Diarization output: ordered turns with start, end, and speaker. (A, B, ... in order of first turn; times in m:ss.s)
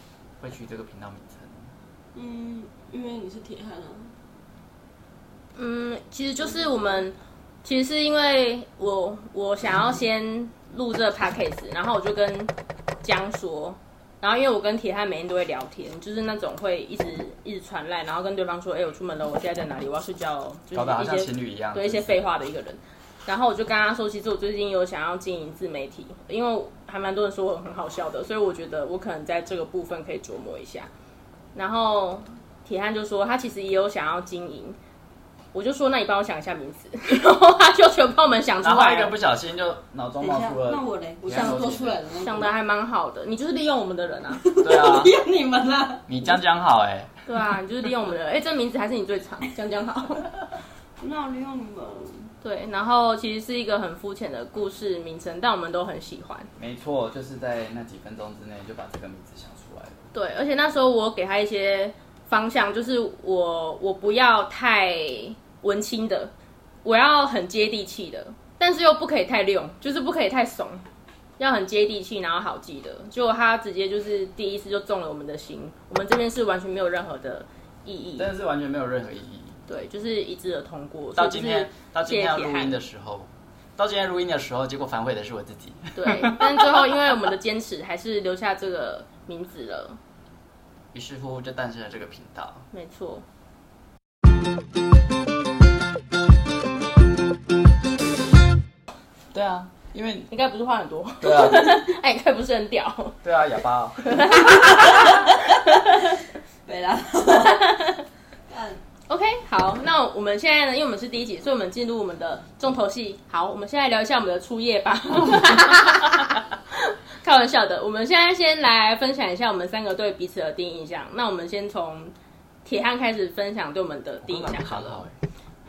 0:00.4-0:01.7 A
0:02.2-0:04.1 B
0:05.6-0:30.9 C
0:06.4-0:07.0 B
0:20.7-0:22.3 A
0:31.5-0:34.8 C
0:35.5-0:39.1 C
0:38.6-0:41.9 A
0:40.2-0:42.5 B
0:41.3-0:44.4 C
0:44.3-0:46.1 B
0:44.6-0:45.2 A
0:46.1-0:47.1 A
0:47.3-0:50.3 C
0:51.0-0:52.3 B
0:52.4-0:56.5 C
0:56.6-1:00.0 A
1:00.1-1:06.3 C
1:06.8-1:10.8 C
1:11.4-1:18.3 C
1:18.2-1:19.6 A
1:19.7-1:22.8 C
1:21.2-1:26.5 A
1:26.0-1:30.0 C
1:30.9-1:32.6 A
1:32.7-1:33.3 C
1:39.3-1:40.3 A
1:40.3-1:43.2 C
1:41.2-1:41.7 A
1:43.2-1:44.5 A
1:44.0-1:46.0 C
1:45.8-1:46.2 B
1:46.7-1:47.7 B
1:47.4-1:48.0 C
1:48.5-1:48.8 B
1:49.1-2:02.1 C
2:02.6-2:05.1 C
2:04.2-2:05.2 A